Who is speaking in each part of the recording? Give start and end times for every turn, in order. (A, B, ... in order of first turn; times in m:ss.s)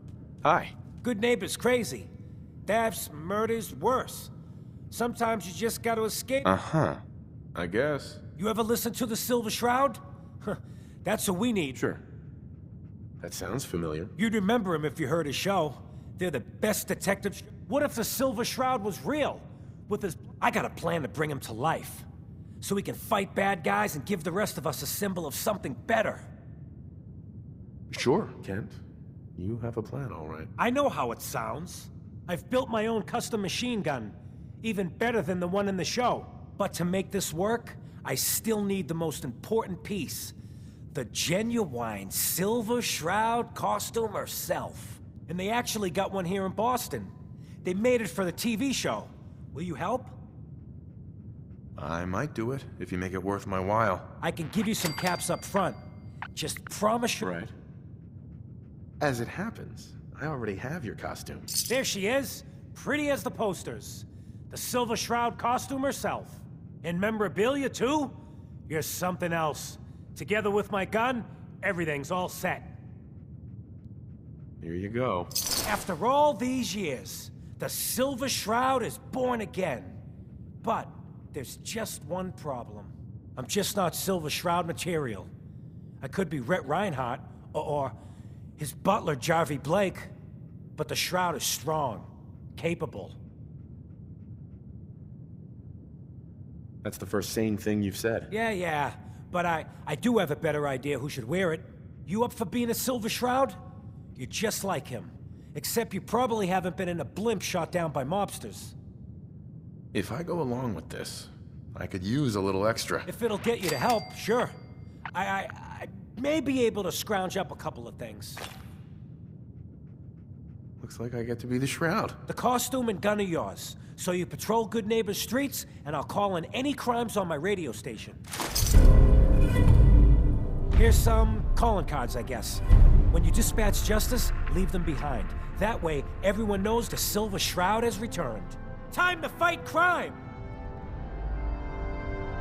0:00.4-0:00.8 A
0:01.0-0:02.1 B
0:02.6-0:04.3 B
0:04.9-0:06.5 B
0:06.4-0:07.0 A
0:07.5-0:08.2 A
0:08.4-0:11.8 B
0:11.8-0:12.0 A
0:13.2-0:14.1 A
0:14.2-0:22.1 B
0:22.6-0:26.3 B
0:27.9-0:28.8 A
0:29.4-0:30.5 A
0:30.6-0:40.3 B
0:40.9-0:47.1 B
0:47.6-0:50.2 B
0:51.8-0:54.1 A
0:54.2-0:55.8 B
0:56.3-0:57.3 B
0:57.2-0:57.5 A
0:59.0-1:01.5 A
1:01.7-1:08.2 B
1:08.7-1:12.8 B
1:14.6-1:15.3 A
1:15.6-1:20.0 B
1:20.6-1:25.3 B
1:26.0-1:28.0 B
1:28.6-1:30.1 B
1:30.8-1:33.2 B
1:36.8-1:38.3 A
1:38.3-1:43.6 B
1:44.2-1:48.7 B
1:49.9-1:53.1 A
1:53.1-1:54.6 B
1:55.1-1:58.4 B
2:00.8-2:02.2 A
2:02.3-2:08.2 B
2:10.7-2:20.2 B